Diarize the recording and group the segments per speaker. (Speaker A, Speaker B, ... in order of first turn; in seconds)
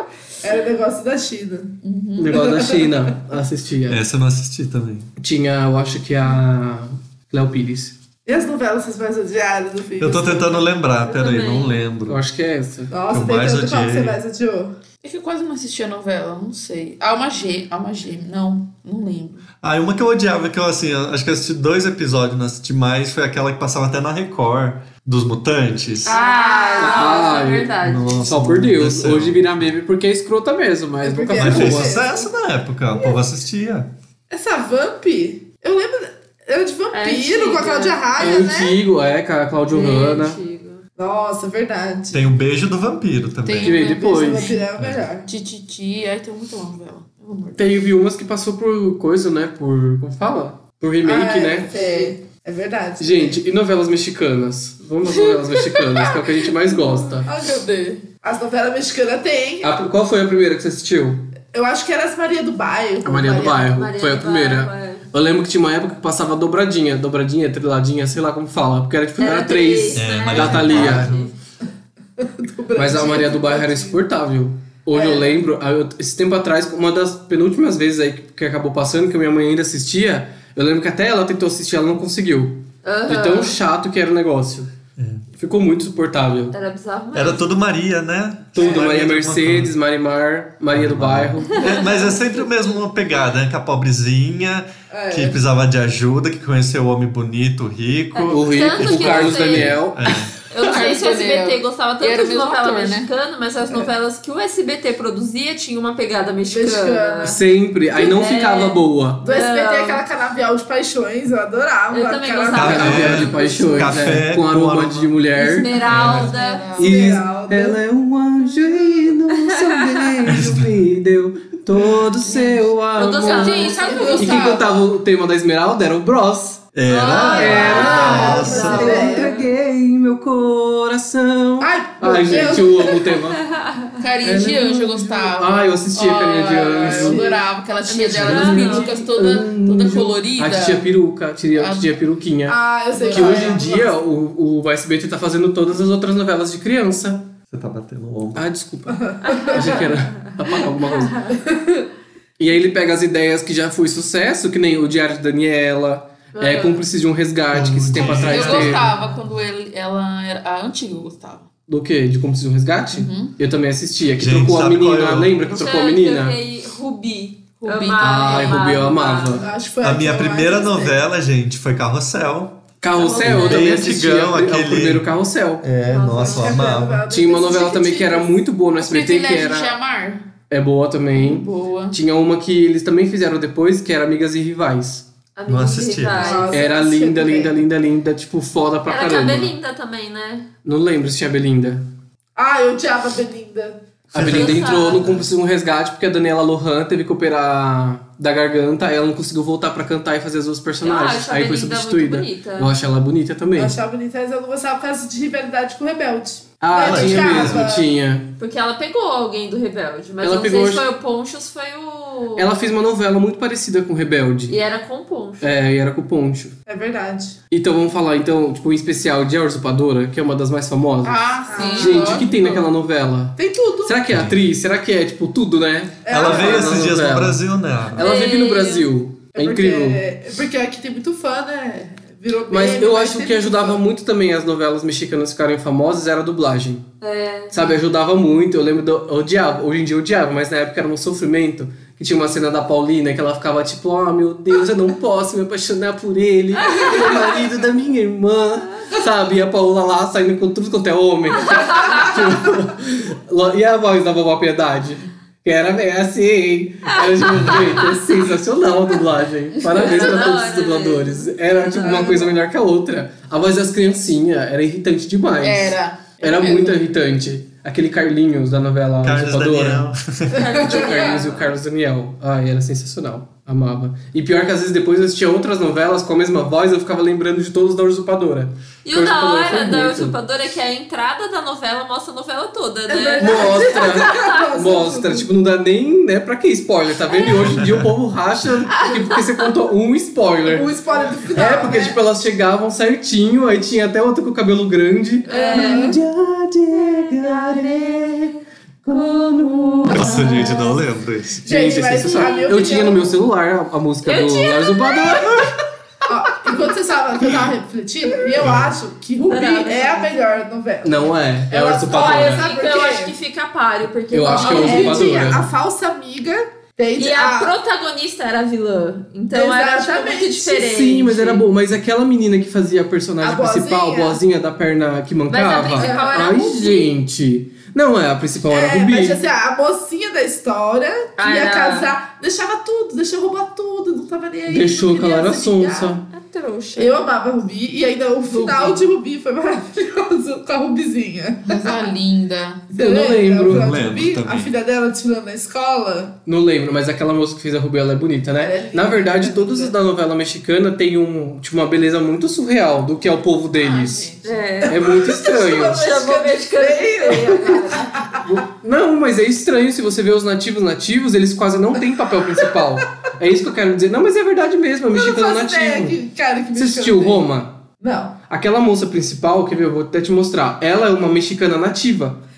Speaker A: 0.4-1.8, 2.3-3.1, 8.3-10.7, 12.9-14.7, 26.1-27.4, 31.0-32.2, 32.9-33.2, 34.3-38.8, 41.0-42.3, 43.7-45.3, 51.0-53.4, 57.3-57.6, 58.2-59.8, 61.5-63.7, 72.2-74.0, 74.9-75.4, 94.9-95.4, 106.5-107.4, 109.2-113.3, 116.8-117.8, 118.6-119.2, 123.8-124.6, 127.6-129.5, 131.6-133.0, 136.8-137.5, 142.5-143.9, 148.9-149.9, 151.4-151.8, 169.3-171.0, 176.1-178.3, 186.2-187.6, 192.4-193.8, 203.6-207.9, 216.7-217.4, 221.5-222.3, 223.4-224.0, 226.1-226.9, 229.3-233.8, 261.8-262.3, 270.3-271.2, 282.9-285.3, 290.4-292.0, 295.3-296.0, 301.5-303.2, 306.1-313.1, 314.3-317.5, 319.3-320.7, 323.2-324.2, 325.7-326.5, 328.5-336.0, 336.8-341.9, 342.7-346.1, 348.4-349.7, 354.7-358.3, 364.9-367.2, 367.8-368.2
Speaker B: 1.8-2.5, 15.0-19.4, 26.1-27.1, 43.5-44.7, 45.2-47.7, 51.7-52.1, 55.3-56.1, 57.3-58.1, 100.6-103.1, 115.8-117.0, 122.2-122.7, 123.2-124.8, 127.9-129.3, 134.0-140.9, 141.6-141.9, 142.9-143.6, 158.0-161.5, 162.9-163.3, 167.6-168.9, 178.8-180.3, 181.1-182.0, 221.0-222.6, 265.4-266.8, 338.3-338.8, 341.5-342.7, 353.5-354.4
Speaker C: 2.2-4.0, 5.2-8.0, 12.1-12.9, 26.8-32.0, 38.2-40.4, 43.6-44.5, 47.6-51.7, 53.0-57.3, 59.6-61.3, 63.0-71.1, 72.8-84.7, 85.3-86.5, 88.5-91.9, 98.3-100.2, 107.2-109.2, 112.6-115.8, 116.8-126.7, 127.3-133.4, 134.2-137.3, 138.1-147.3, 148.3-151.2, 152.4-158.9, 161.7-166.4, 168.0-169.5, 172.8-175.7, 177.1-179.7, 180.5-185.1, 186.5-189.5, 190.7-191.8, 194.1-203.8, 206.6-208.3, 210.2-210.8, 212.4-214.6, 215.4-216.6, 217.5-227.4, 227.9-230.0, 232.5-236.9, 237.5-269.9, 270.6-280.2, 283.2-290.7, 291.3-300.6, 301.4-305.5, 310.8-312.5, 314.1-315.5, 320.5-329.2, 334.5-336.1, 342.7-343.7, 346.3-354.1, 354.7-355.8, 358.2-366.0, 366.5-367.6, 368.3-372.2
Speaker D: 3.9-5.1, 10.0-12.2, 13.1-14.2, 19.6-26.1, 27.8-29.7, 31.3-33.9, 42.1-43.8, 44.8-45.0, 69.9-71.3, 85.0-85.2, 87.1-89.7, 90.7-100.3, 112.5-115.2, 115.9-116.3, 120.3-120.8, 126.8-129.1, 147.5-148.5, 157.5-158.9, 164.2-165.4, 169.8-175.1, 175.6-177.1, 185.5-186.5, 194.1-195.3, 206.8-207.7, 224.1-224.4, 226.1-228.1, 269.0-270.5, 287.6-287.9, 299.9-301.4, 308.4-308.8, 343.5-344.5
Speaker E: 11.1-11.8, 26.1-28.3, 36.9-38.3, 39.7-40.8, 63.7-65.1, 69.2-71.3, 82.8-83.6, 86.5-87.5, 98.2-99.9, 100.5-107.4, 107.9-110.0, 111.9-114.0, 115.4-116.7, 119.4-119.9, 123.0-124.5, 126.9-129.3, 133.5-134.0, 137.9-139.0, 149.3-150.3, 150.9-151.4, 156.3-156.8, 165.5-169.5, 172.9-173.8, 175.9-176.7, 185.4-186.6, 188.9-190.5, 194.2-195.0, 200.8-202.7, 208.4-212.5, 214.5-215.5, 228.0-228.9, 237.0-237.5, 246.7-247.2, 251.5-252.1, 256.9-257.9, 259.7-262.3, 270.3-271.5, 278.9-284.4, 287.1-287.6, 288.8-289.4, 295.3-296.0, 296.8-298.3, 298.9-300.8, 302.0-302.6, 304.1-305.6, 309.2-310.4, 311.9-315.5, 317.0-321.4, 325.3-326.9, 331.2-331.9, 336.1-337.1, 354.2-358.0